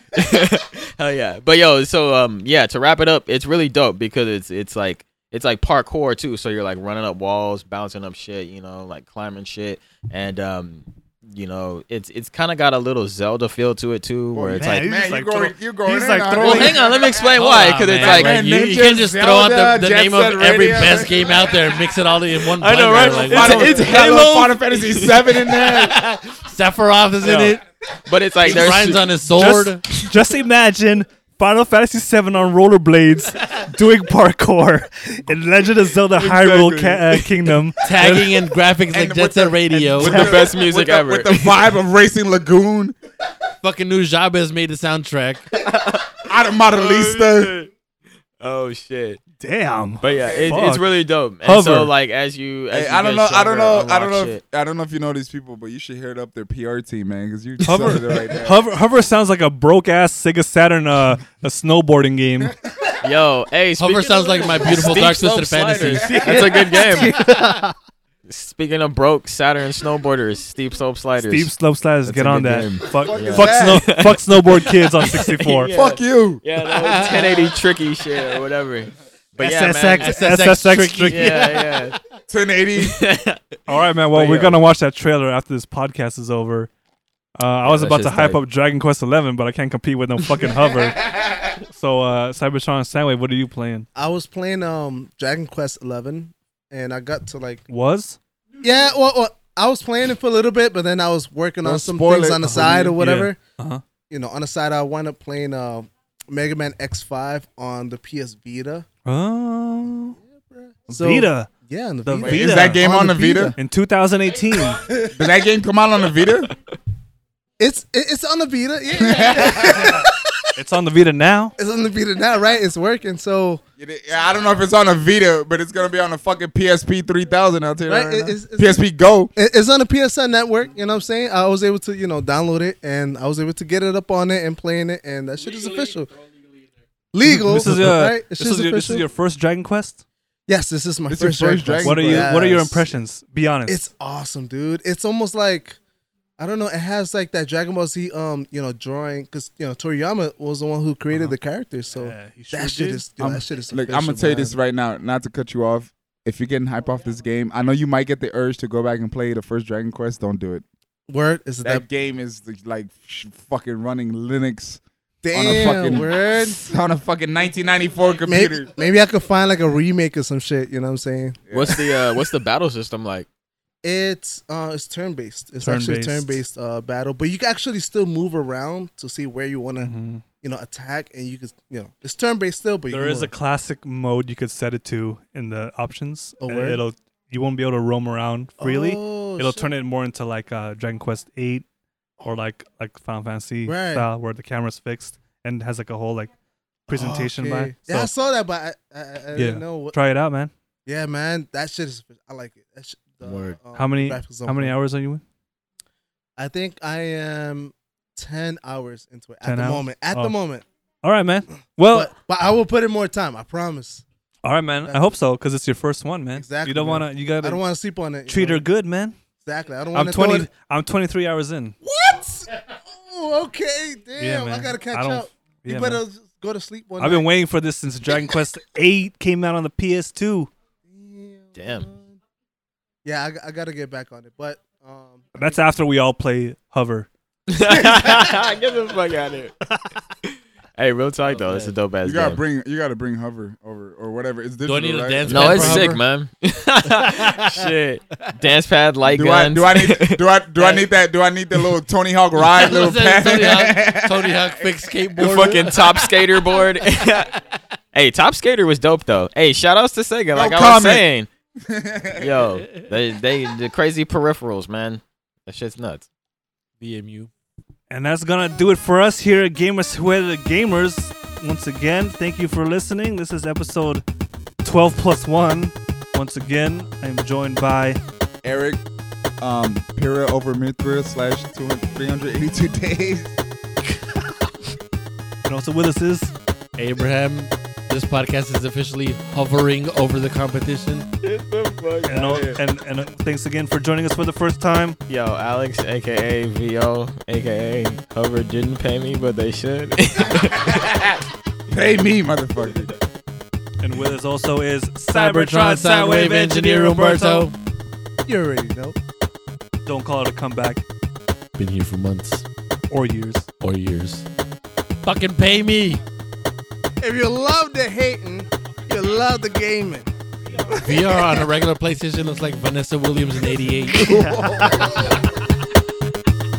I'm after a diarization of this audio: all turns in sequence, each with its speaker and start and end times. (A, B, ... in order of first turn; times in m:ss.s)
0:00.1-0:14.9 A
0:14.3-0:17.3 B
0:14.6-0:16.8 C
0:16.3-0:18.5 A
0:17.3-0:27.6 D
0:17.9-0:21.5 B
0:22.4-0:25.2 A
0:23.0-0:23.8 C
0:23.3-0:26.0 B
0:27.2-0:29.1 A
0:28.4-0:29.8 D
0:29.3-0:38.3 C
0:36.2-0:37.3 A
0:37.8-0:40.2 D
0:38.9-0:42.9 B
0:39.7-0:40.4 C
0:40.0-0:41.7 A
0:43.6-0:45.4 D
0:45.5-0:47.7 A
0:46.2-0:47.5 B
0:48.4-0:49.2 A
0:49.4-0:50.9 C
0:50.0-0:54.4 A
0:51.4-0:51.9 C
0:52.7-0:58.6 B
0:57.6-1:02.5 C
1:03.0-1:07.2 A
1:03.8-1:07.6 D
1:05.9-1:07.6 C
1:08.3-1:11.5 A
1:11.2-1:15.7 C
1:12.0-1:13.9 B
1:13.1-1:14.2 A
1:15.0-1:20.6 A
1:15.7-1:16.4 B
1:16.7-1:17.5 D
1:19.4-1:21.5 C
1:20.0-1:21.7 D
1:21.1-1:22.0 A
1:22.3-1:23.0 B
1:22.8-1:23.6 A
1:23.7-1:26.7 C
1:24.1-1:24.6 A
1:27.4-1:31.0 C
1:27.6-1:28.4 A
1:31.7-1:33.9 C
1:33.9-1:37.6 E
1:37.7-1:38.2 C
1:38.6-1:43.4 E
1:41.6-1:42.9 B
1:42.9-1:43.8 C
1:44.1-1:48.8 E
1:49.0-1:50.2 C
1:50.2-1:53.6 E
1:50.9-1:51.5 C
1:52.0-1:52.8 C
1:52.2-1:53.5 B
1:53.6-1:54.8 C
1:54.8-1:55.1 E
1:55.1-1:56.5 B
1:57.6-2:00.3 E
1:59.0-2:00.0 B
2:00.6-2:01.5 C
2:01.6-2:03.6 E
2:03.8-2:09.3 B
2:07.8-2:08.8 E
2:09.3-2:16.1 E
2:17.1-2:19.0 E
2:17.2-2:20.0 C
2:20.5-2:22.9 E
2:21.1-2:22.4 B
2:21.8-2:23.8 C
2:23.7-2:25.8 E
2:26.4-2:34.6 E
2:31.1-2:31.4 C
2:31.9-2:33.0 C
2:33.2-2:40.6 B
2:41.1-2:41.8 E
2:41.6-2:44.8 B
2:45.2-2:46.6 E
2:45.3-2:48.7 B
2:48.2-2:51.4 E
2:51.5-2:51.8 B
2:51.5-2:53.3 A
2:53.8-3:03.3 E
2:55.6-2:56.4 C
2:59.8-3:00.2 C
3:02.9-3:11.6 C
3:06.4-3:06.8 E
3:08.6-3:09.7 E
3:12.2-3:16.3 C
3:13.6-3:14.1 E
3:16.9-3:18.1 C
3:16.9-3:20.0 E
3:19.4-3:20.5 C
3:20.8-3:24.8 E
3:23.2-3:23.5 D
3:23.7-3:25.2 C
3:26.4-3:30.6 E
3:29.4-3:30.3 C
3:31.0-3:32.1 C
3:31.9-3:34.0 E
3:34.4-3:37.6 C
3:34.8-3:35.1 E
3:36.4-3:38.6 E
3:38.3-3:39.1 C
3:39.4-3:40.5 E
3:39.9-3:41.7 C
3:41.8-3:47.3 E
3:44.2-3:46.0 C
3:47.0-3:50.5 C
3:50.9-3:52.1 E
3:51.6-3:51.9 A
3:53.0-3:55.5 E
3:55.3-3:57.1 C
3:57.5-3:59.6 A
4:00.2-4:02.4 A
4:01.3-4:01.7 D
4:02.0-4:05.9 B
4:04.6-4:06.0 D
4:05.2-4:10.8 A
4:06.9-4:07.6 D
4:09.0-4:14.6 B
4:12.4-4:17.4 D
4:15.2-4:17.3 A
4:17.9-4:21.3 A
4:20.3-4:21.0 B
4:21.6-4:22.4 B
4:22.2-4:26.0 A
4:26.8-4:27.3 D
4:27.9-4:34.0 C
4:34.6-4:38.0 C
4:38.4-4:38.8 B
4:39.4-4:43.3 B
4:45.5-4:46.3 C
4:46.8-4:51.1 D
4:51.2-4:52.6 A
4:52.0-4:55.0 C
4:55.1-5:01.0 A
5:00.7-5:01.1 B
5:01.7-5:02.9 B
5:03.8-5:07.5 C
5:05.1-5:07.6 D
5:08.2-5:09.0 E
5:09.8-5:10.8 C
5:11.6-5:12.4 D
5:12.9-5:13.5 C
5:13.6-5:14.2 D
5:15.0-5:16.0 D
5:17.0-5:20.1 E
5:20.8-5:24.1 D
5:23.9-5:25.1 E
5:23.9-5:25.0 B